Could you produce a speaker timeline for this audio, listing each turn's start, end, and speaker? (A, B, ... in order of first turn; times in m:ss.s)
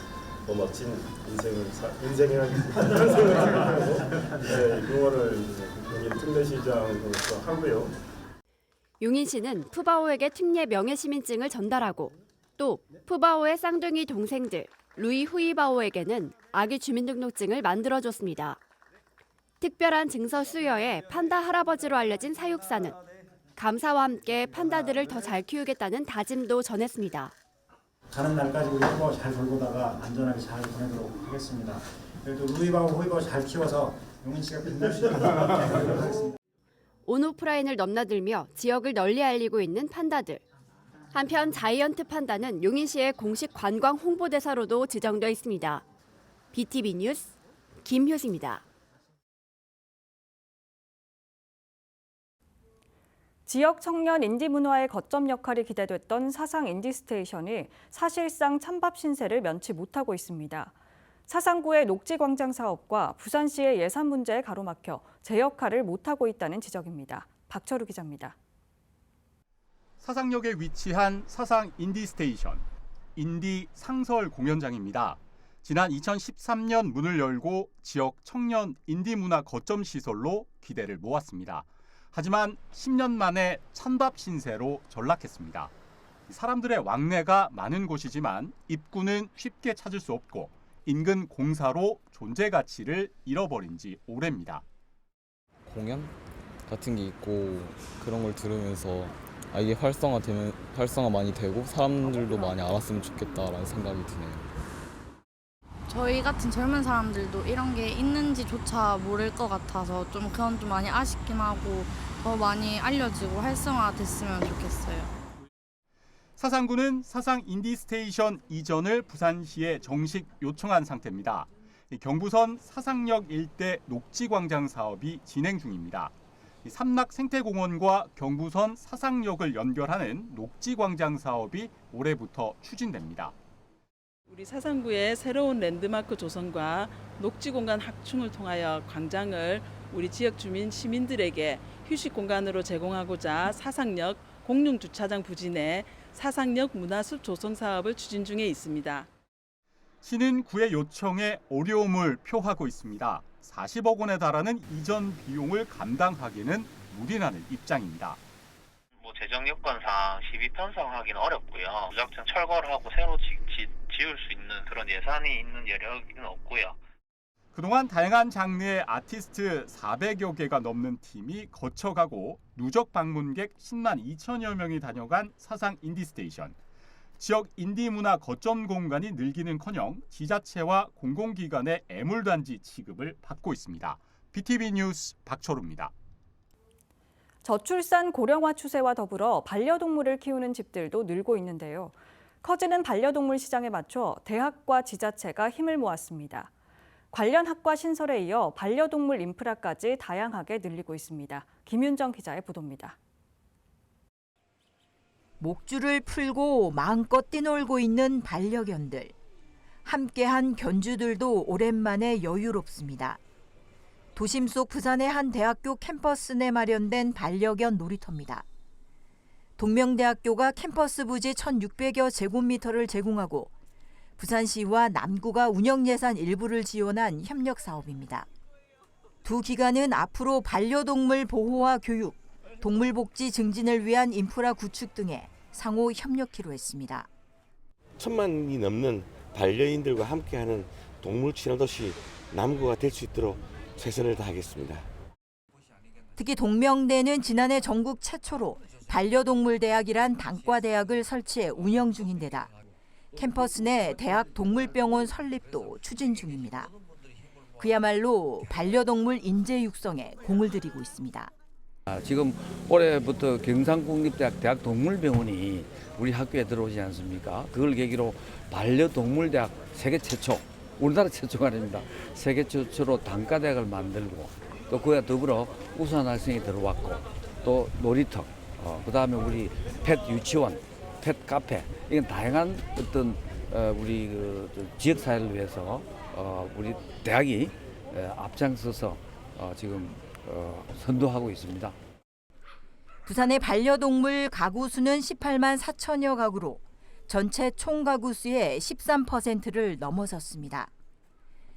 0:00.4-0:08.0 A
0:09.0-0:18.6 B
0:19.6-0:23.0 B
0:23.6-0:27.3 B
0:28.1-0:36.3 C
0:37.1-0:40.4 B
0:41.1-0:45.8 B
0:46.5-0:47.3 B
0:47.8-0:48.6 B
0:53.5-1:00.8 D
1:01.3-1:08.4 D
1:10.0-1:25.7 E
1:26.3-1:34.6 E
1:35.7-1:36.1 F
1:36.7-1:44.5 F
1:45.9-1:55.2 G
1:56.4-2:13.4 E
2:14.3-2:29.1 H
2:30.0-2:38.2 E
2:39.0-2:46.8 I
2:47.5-2:56.6 E
2:57.2-3:05.9 E
3:07.4-3:16.5 D
3:17.1-3:23.0 D
3:25.4-3:29.1 J
3:29.8-3:33.2 J
3:34.2-3:38.4 J
3:39.6-3:43.5 J
3:44.2-3:48.3 J
3:49.2-3:57.1 J
3:58.0-4:04.9 K
4:06.2-4:12.5 J
4:13.2-4:16.7 J
4:17.6-4:21.3 J
4:21.9-4:51.8 L
4:53.1-5:00.7 J